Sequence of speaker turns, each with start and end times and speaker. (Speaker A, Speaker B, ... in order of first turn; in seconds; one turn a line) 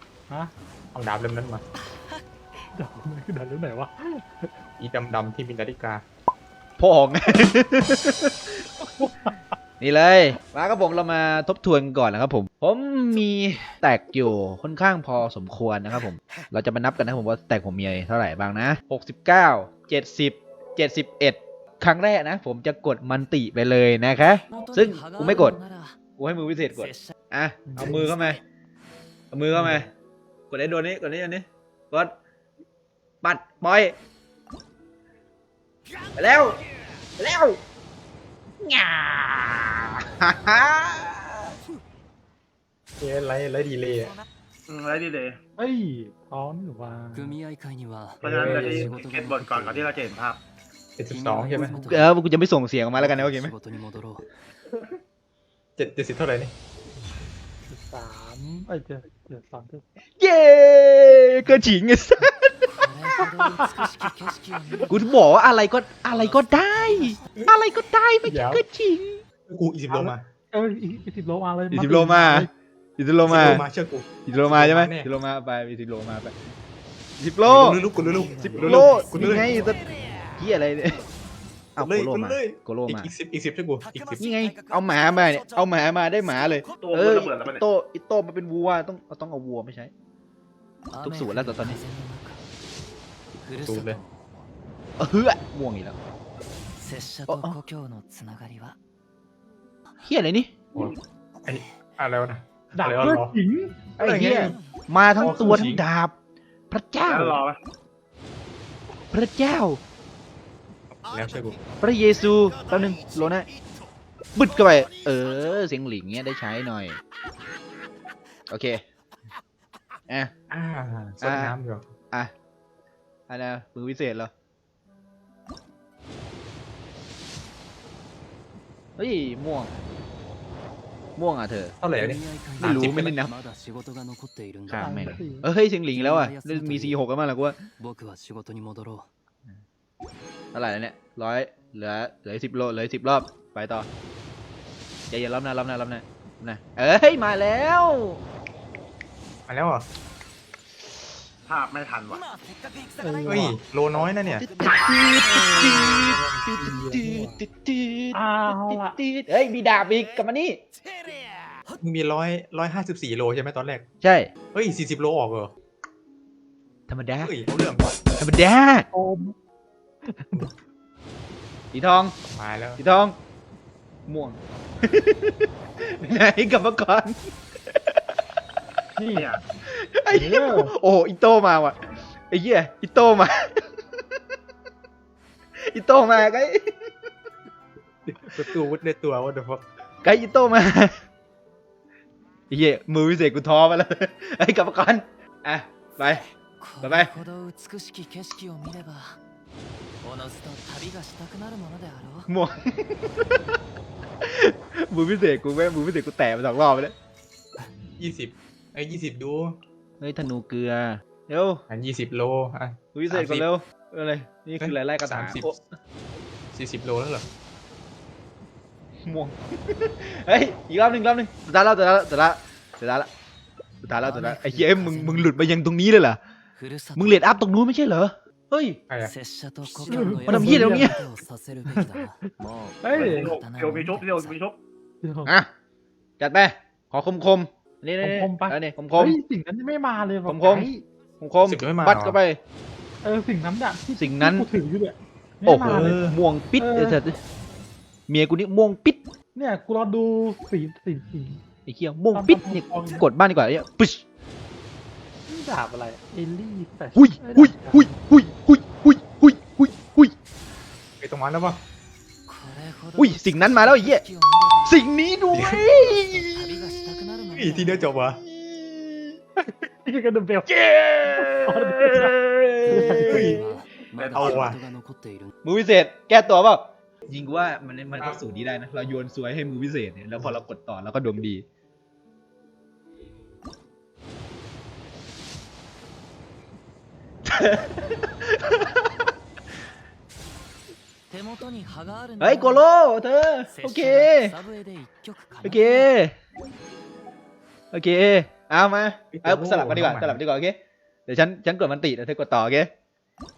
Speaker A: 0.9-1.6
Speaker B: 2.7-4.5
Speaker A: 4.8-6.0
Speaker C: 6.8-8.6
Speaker B: 9.0-9.4
Speaker C: 9.8-25.6
Speaker D: 24.5-25.9
Speaker C: 26.2-28.4
Speaker D: 26.8-27.1
Speaker B: 27.7-28.1
Speaker C: 29.3-29.9
Speaker C: 30.5-32.1
Speaker C: 33.2-34.0
Speaker C: 36.1-36.6
Speaker C: 37.2-37.6
Speaker C: 38.6-41.5
Speaker A: 43.0-44.1
Speaker E: 44.7-45.4
Speaker B: 45.6-47.4
Speaker D: 47.1-49.9
Speaker E: 48.2-50.4
Speaker A: 48.2-48.9
Speaker A: 51.0-51.8
Speaker D: 51.1-52.1
Speaker C: 51.8-53.5
Speaker D: 53.0-54.3
Speaker A: 55.8-56.5
Speaker B: 57.7-59.8
Speaker C: 60.2-62.5
Speaker D: 62.7-65.1
Speaker B: 63.5-63.9
Speaker C: 64.9-69.2
Speaker D: 66.1-67.2
Speaker A: 68.2-68.6
Speaker A: 69.5-70.2
Speaker B: 69.9-72.5
Speaker C: 71.7-73.7
Speaker A: 73.2-75.1
Speaker C: 74.2-76.3
Speaker C: 77.2-79.8
Speaker A: 77.4-79.6
Speaker D: 77.9-80.1
Speaker C: 80.4-81.0
Speaker C: 81.8-83.1
Speaker A: 81.8-84.2
Speaker C: 84.2-89.9
Speaker E: 86.8-87.6
Speaker D: 90.9-92.4
Speaker C: 91.0-91.8
Speaker D: 93.4-94.4
Speaker A: 93.6-94.0
Speaker C: 95.0-96.0
Speaker D: 96.8-98.8
Speaker C: 97.3-97.6
Speaker C: 100.0-100.5
Speaker A: 100.8-103.3
Speaker B: 102.7-103.9
Speaker A: 104.0-104.6
Speaker C: 104.0-106.1
Speaker D: 104.3-104.7
Speaker A: 105.2-105.8
Speaker C: 106.7-107.4
Speaker E: 107.1-107.6
Speaker C: 109.1-109.8
Speaker A: 111.1-111.6
Speaker C: 111.8-113.5
Speaker C: 114.3-117.0
Speaker C: 118.5-118.8
Speaker A: 120.5-121.9
Speaker C: 121.2-121.5
Speaker C: 123.3-124.3
Speaker C: 129.0-129.8
Speaker C: 131.2-131.8
Speaker A: 131.8-133.0
Speaker D: 131.9-135.1
Speaker C: 132.6-133.3
Speaker C: 134.7-137.6
Speaker B: 134.8-135.5
Speaker D: 135.9-137.0
Speaker D: 137.8-139.1
Speaker C: 140.5-143.9
Speaker C: 145.1-148.2
Speaker A: 149.5-149.9
Speaker E: 151.5-152.2
Speaker B: 153.0-153.6
Speaker A: 153.2-154.5
Speaker D: 154.2-154.6
Speaker C: 154.6-160.6
Speaker B: 155.3-157.4
Speaker B: 158.1-159.0
Speaker A: 161.8-163.9
Speaker C: 164.0-164.3
Speaker A: 164.5-165.5
Speaker C: 166.9-167.3
Speaker A: 167.2-168.0
Speaker C: 168.2-168.9
Speaker B: 168.9-169.3
Speaker B: 170.1-170.5
Speaker C: 171.7-172.1
Speaker A: 172.2-172.8
Speaker C: 172.8-173.2
Speaker C: 174.1-177.2
Speaker B: 179.0-179.3
Speaker E: 179.2-179.4
Speaker C: 179.7-181.8
Speaker B: 180.1-180.7
Speaker C: 182.3-183.7
Speaker C: 185.7-186.8
Speaker A: 188.1-189.6
Speaker C: 190.0-191.0
Speaker C: 192.5-196.2
Speaker D: 196.6-199.2
Speaker C: 196.8-197.2
Speaker D: 200.0-202.3
Speaker C: 202.3-203.4
Speaker C: 204.2-206.9
Speaker A: 208.0-209.6
Speaker C: 210.0-211.6
Speaker A: 211.7-213.5
Speaker C: 212.9-215.6
Speaker A: 214.6-215.5
Speaker A: 216.5-217.3
Speaker C: 219.1-223.1
Speaker C: 223.8-226.2
Speaker D: 224.0-225.3
Speaker D: 226.6-227.2
Speaker C: 227.0-228.8
Speaker D: 229.0-234.4
Speaker B: 229.9-230.9
Speaker C: 230.3-231.0
Speaker B: 232.8-233.3
Speaker E: 233.0-234.6
Speaker B: 235.0-235.3
Speaker C: 236.2-239.2
Speaker B: 238.0-240.8
Speaker C: 240.2-240.7
Speaker C: 241.2-242.4
Speaker A: 241.4-242.2
Speaker B: 243.0-247.0
Speaker C: 243.9-244.5
Speaker C: 245.4-247.2
Speaker A: 245.7-246.2
Speaker C: 248.1-249.0
Speaker B: 249.3-251.4
Speaker C: 251.7-254.1
Speaker B: 252.1-253.1
Speaker B: 255.3-258.2
Speaker C: 256.9-260.1
Speaker A: 261.0-261.6
Speaker D: 262.3-264.8
Speaker C: 263.0-264.1
Speaker C: 264.6-266.5
Speaker A: 265.3-265.7
Speaker D: 265.9-267.9
Speaker A: 267.3-268.2
Speaker C: 268.2-269.2
Speaker B: 269.4-270.6
Speaker C: 270.5-273.4
Speaker B: 271.1-272.1
Speaker D: 272.6-275.3
Speaker B: 272.7-273.4
Speaker A: 273.0-273.4
Speaker E: 274.0-274.4
Speaker A: 274.1-274.6
Speaker C: 275.4-281.4
Speaker C: 287.3-288.7
Speaker D: 291.1-292.6
Speaker C: 292.2-294.4
Speaker D: 293.5-295.9
Speaker C: 295.4-296.1
Speaker C: 297.7-302.7
Speaker A: 299.1-300.2